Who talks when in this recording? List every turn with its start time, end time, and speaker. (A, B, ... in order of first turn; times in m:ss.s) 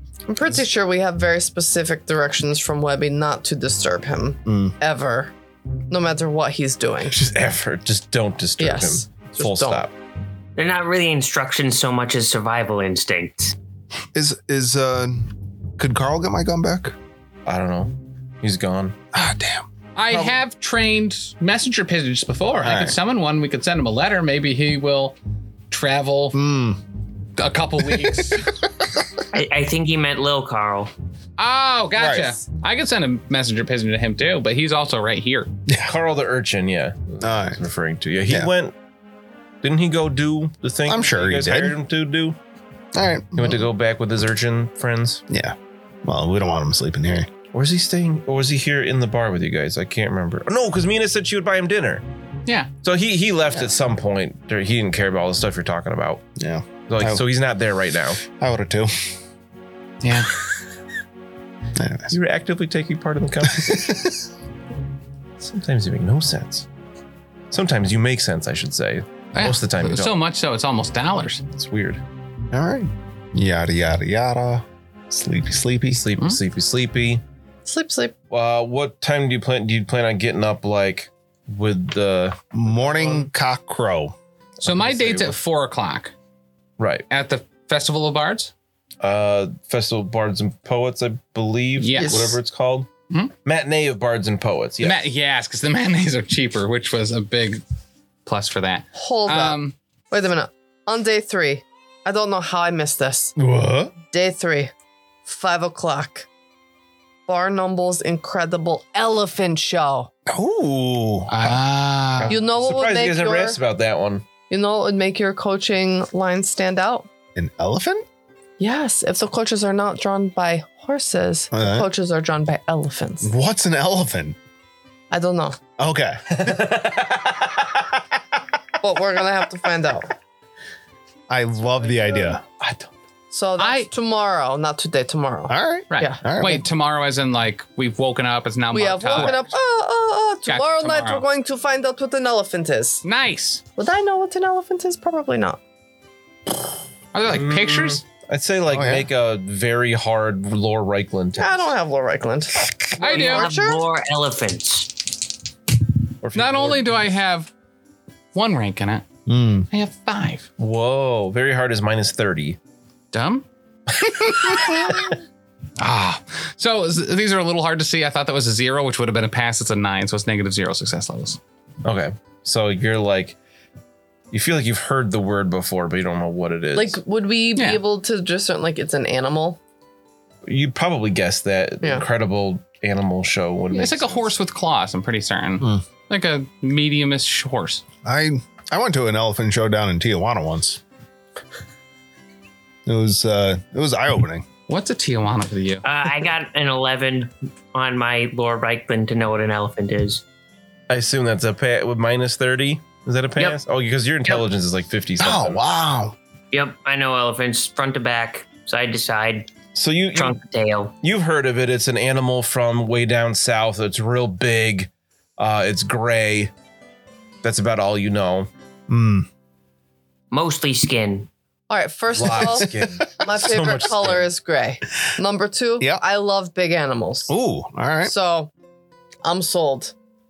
0:00.3-0:05.3 A
0:04.5-0:04.8 B
0:05.9-0:07.2 A
0:07.1-0:09.9 C
0:08.6-0:09.8 A
0:10.6-0:13.6 D
0:14.1-0:17.0 B
0:17.5-0:19.0 C
0:19.1-0:20.4 B
0:20.0-0:25.2 E
0:22.6-0:23.0 B
0:25.7-0:26.4 E
0:26.3-0:26.8 B
0:27.4-0:28.6 E
0:27.9-0:28.3 B
0:29.3-0:30.9 D
0:31.4-0:35.5 E
0:32.0-0:32.4 B
0:35.7-0:35.9 B
0:35.8-0:38.7 C
0:37.2-0:37.6 B
0:39.6-0:42.4 C
0:40.9-0:41.8 B
0:42.9-0:43.7 B
0:43.4-0:45.2 C
0:45.3-0:47.3 B
0:47.5-0:52.0 C
0:52.8-0:56.2 C
0:56.4-0:57.2 B
0:56.9-0:58.2 C
0:58.2-0:59.1 B
1:00.0-1:00.3 E
1:01.8-1:02.2 B
1:02.1-1:04.0 C
1:03.5-1:04.2 B
1:05.4-1:06.7 C
1:07.5-1:10.1 C
1:09.4-1:11.4 E
1:11.5-1:12.0 C
1:12.5-1:16.0 B
1:15.9-1:17.2 C
1:17.6-1:18.1 A
1:18.3-1:22.4 C
1:22.5-1:24.2 B
1:22.9-1:23.2 E
1:24.6-1:25.4 C
1:24.6-1:26.1 E
1:26.8-1:27.0 C
1:27.1-1:28.5 E
1:29.0-1:32.9 C
1:31.8-1:32.3 E
1:32.0-1:32.4 A
1:33.4-1:35.0 C
1:34.8-1:37.6 E
1:38.3-1:39.8 E
1:39.0-1:39.6 A
1:40.1-1:43.3 A
1:43.4-1:43.9 B
1:44.1-1:44.7 A
1:45.3-1:46.3 A
1:47.3-1:50.1 A
1:50.3-1:51.4 B
1:51.3-1:52.4 E
1:52.2-1:54.3 C
1:52.3-1:53.6 A
1:54.5-1:57.1 A
1:57.4-1:58.0 B
1:58.6-2:03.3 A
2:01.5-2:01.9 B
2:03.2-2:04.4 B
2:05.1-2:05.6 A
2:05.8-2:06.2 B
2:06.3-2:07.9 C
2:08.8-2:10.1 A
2:11.3-2:12.6 B
2:13.3-2:16.2 A
2:13.6-2:13.9 E
2:15.5-2:16.6 B
2:15.9-2:19.6 E
2:18.7-2:23.0 A
2:20.5-2:21.2 E
2:23.0-2:23.6 E
2:23.8-2:25.6 A
2:27.1-2:28.0 E
2:27.2-2:31.8 C
2:28.7-2:29.1 B
2:31.4-2:33.9 A
2:33.0-2:33.5 E
2:33.0-2:35.0 D
2:36.2-2:37.0 C
2:36.4-2:37.5 E
2:38.3-2:39.1 E
2:39.3-2:39.7 B
2:39.7-2:40.5 E
2:40.6-2:42.6 C
2:43.1-2:43.4 E
2:44.0-2:45.1 C
2:45.8-2:51.4 E
2:51.8-2:53.4 C
2:54.3-2:57.0 C
2:56.8-2:59.6 A
2:57.6-2:57.8 E
3:00.5-3:04.3 C
3:03.7-3:07.8 E
3:08.0-3:10.8 B
3:12.9-3:14.5 B
3:14.7-3:15.8 E
3:15.8-3:20.2 D
3:20.9-3:25.6 C
3:25.2-3:26.2 B
3:26.5-3:29.5 D
3:29.8-3:30.4 C
3:30.1-3:30.9 D
3:31.0-3:36.5 C
3:37.4-3:38.5 C
3:38.9-3:39.3 B
3:40.3-3:41.3 D
3:41.7-3:47.3 A
3:42.1-3:44.3 C
3:42.6-3:42.9 B
3:47.3-3:48.1 B
3:48.0-3:48.5 A
3:49.2-3:49.9 A